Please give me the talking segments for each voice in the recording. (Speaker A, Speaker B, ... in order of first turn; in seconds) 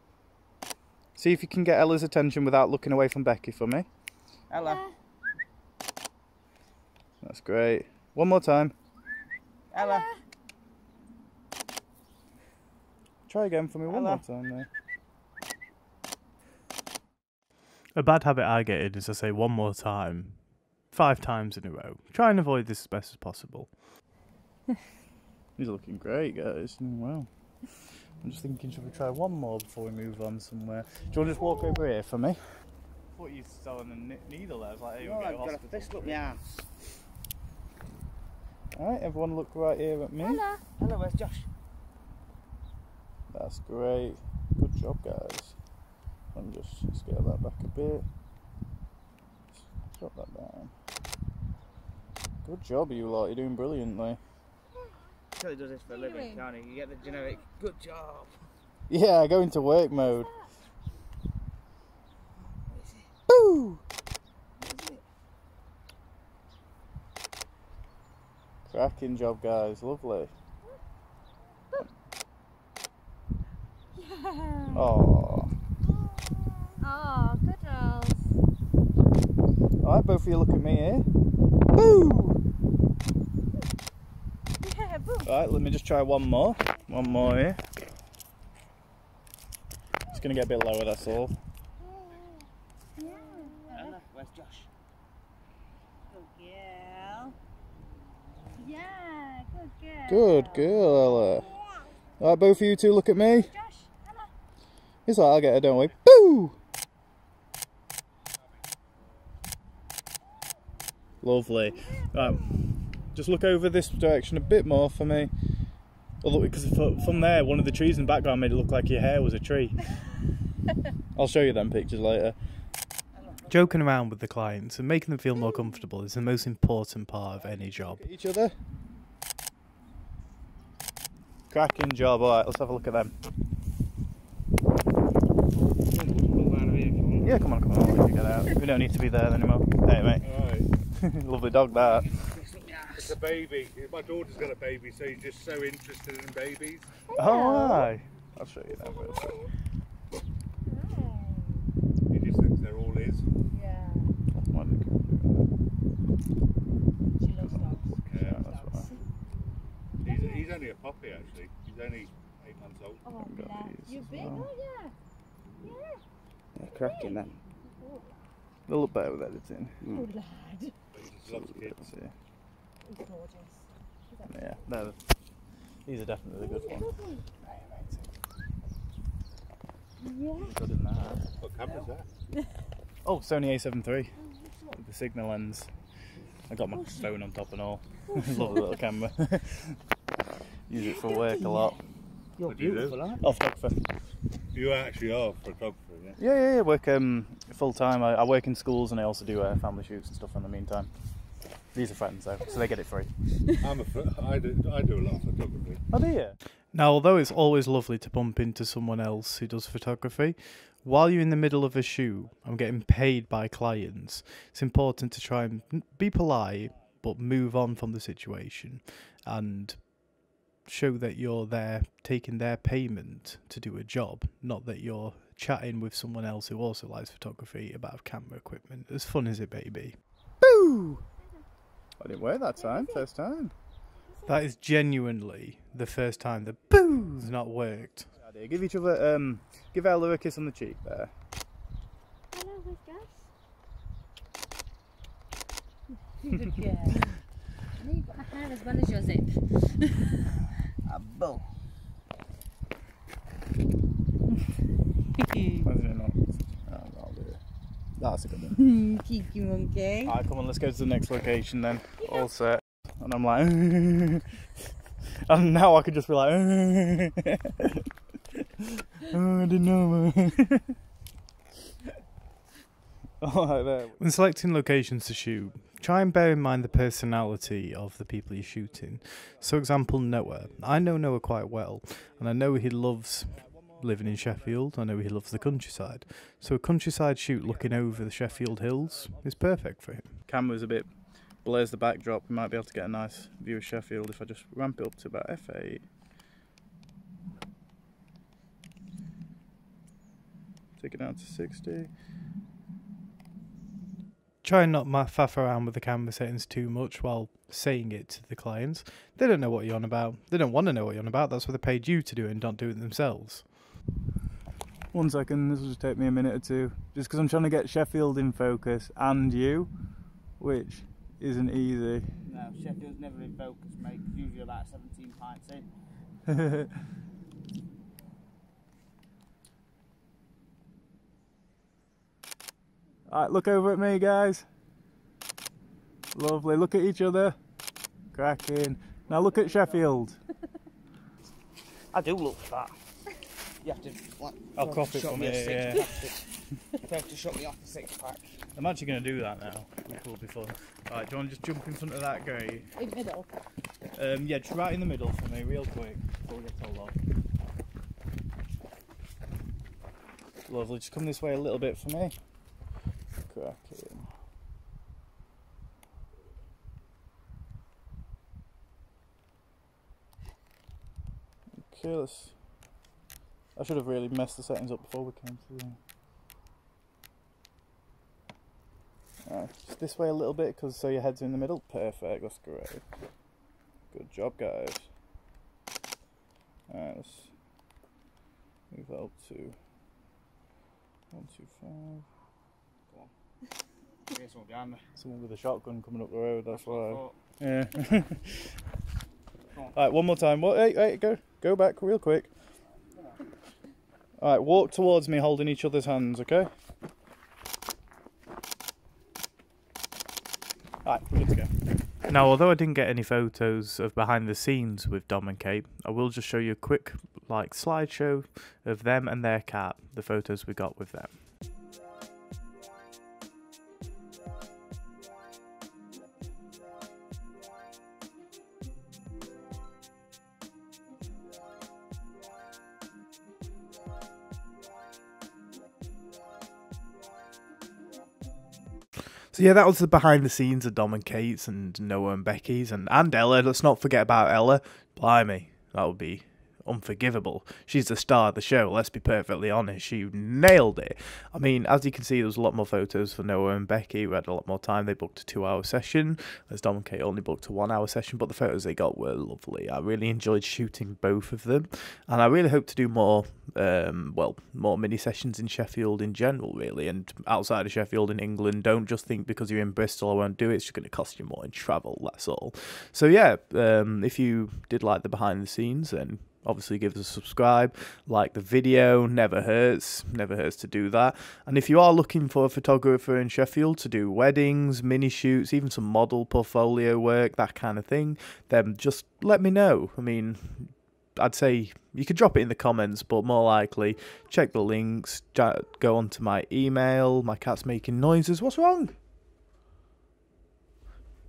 Speaker A: 1.2-3.9, 7.2-8.7, 13.3-14.7, 25.6-27.3, 28.2-32.4, 33.1-36.2, 38.7-40.5, 43.3-45.6, 46.3-48.0, 49.6-50.7, 52.5-54.2, 58.9-60.3, 63.3-63.8, 68.7-70.3, 74.7-75.5, 79.8-81.1, 81.7-82.4, 85.2-87.6, 90.1-91.3, 100.1-101.5, 102.2-103.5, 105.1-106.6, 111.2-115.3, 116.2-119.9, 121.1-122.4, 127.4-128.6, 131.5-133.1, 137.2-140.2, 140.9-142.1, 147.1-149.5, 154.3-155.5, 157.4-158.9, 163.2-164.5, 168.7-169.8, 171.3-172.1, 174.3-175.0, 175.9-178.1, 180.4-181.2, 183.1-185.7, 186.5-189.8, 190.7-191.8, 193.2-193.8, 196.2-200.9, 201.7-203.1, 205.9-206.4, 230.4-231.0, 232.0-233.5, 238.2-241.1, 255.6-257.4, 258.0-258.7, 260.0-264.4, 265.3-267.6, 269.1-270.7, 273.2-274.0, 290.2-295.8, 300.8-301.9, 314.9-319.7, 320.3-322.1, 333.1-334.4, 336.1-337.4, 338.1-340.2, 344.6-346.0, 348.6-352.7, 353.9-357.0, 360.5-362.1, 363.3-364.1, 371.6-372.4, 373.6-375.8, 379.3-382.8, 383.9-384.9, 386.7-387.3, 388.7-389.6, 391.1-392.1, 394.9-398.4, 399.7-402.3, 404.2-406.5, 410.8-411.5
Speaker B: 4.5-4.9, 9.7-10.1, 13.9-14.2, 35.0-36.6, 40.8-41.5, 55.4-58.4, 62.7-63.1, 64.6-65.0, 93.7-94.7, 123.2-123.4, 135.8-137.3, 141.9-143.2, 166.6-167.4, 169.8-170.1, 192.4-193.2, 250.9-251.4, 322.2-325.7, 339.1-339.8, 341.9-342.8, 343.6-348.4, 394.1-394.8, 396.5-397.2
Speaker C: 4.6-4.9, 9.8-10.1, 40.2-40.6, 55.9-56.4, 74.0-74.9, 76.8-78.3, 84.6-85.3, 93.0-94.0, 96.1-97.3, 98.6-100.8, 103.3-104.3, 147.1-147.9, 148.9-149.4, 150.7-151.6, 153.5-154.1, 157.1-159.0, 160.1-160.4, 163.1-164.9, 165.6-166.0, 166.8-167.2, 169.9-170.7, 172.9-173.6, 176.4-177.2, 180.0-180.5, 188.2-188.6, 191.0-191.6, 232.6-233.1, 242.3-243.2, 246.2-247.1, 247.8-250.0, 255.2-255.7, 258.6-260.1, 352.8-353.3
Speaker D: 17.9-23.7, 123.5-128.0, 206.7-220.0, 220.7-230.0, 234.3-238.1, 274.0-290.2, 304.4-313.5, 412.1-421.2, 439.3-498.9
Speaker E: 140.2-140.7, 142.9-146.9, 152.1-153.3, 158.0-158.4, 160.0-163.1, 170.9-171.9, 181.4-182.1, 192.5-193.0, 194.5-196.2, 203.6-205.8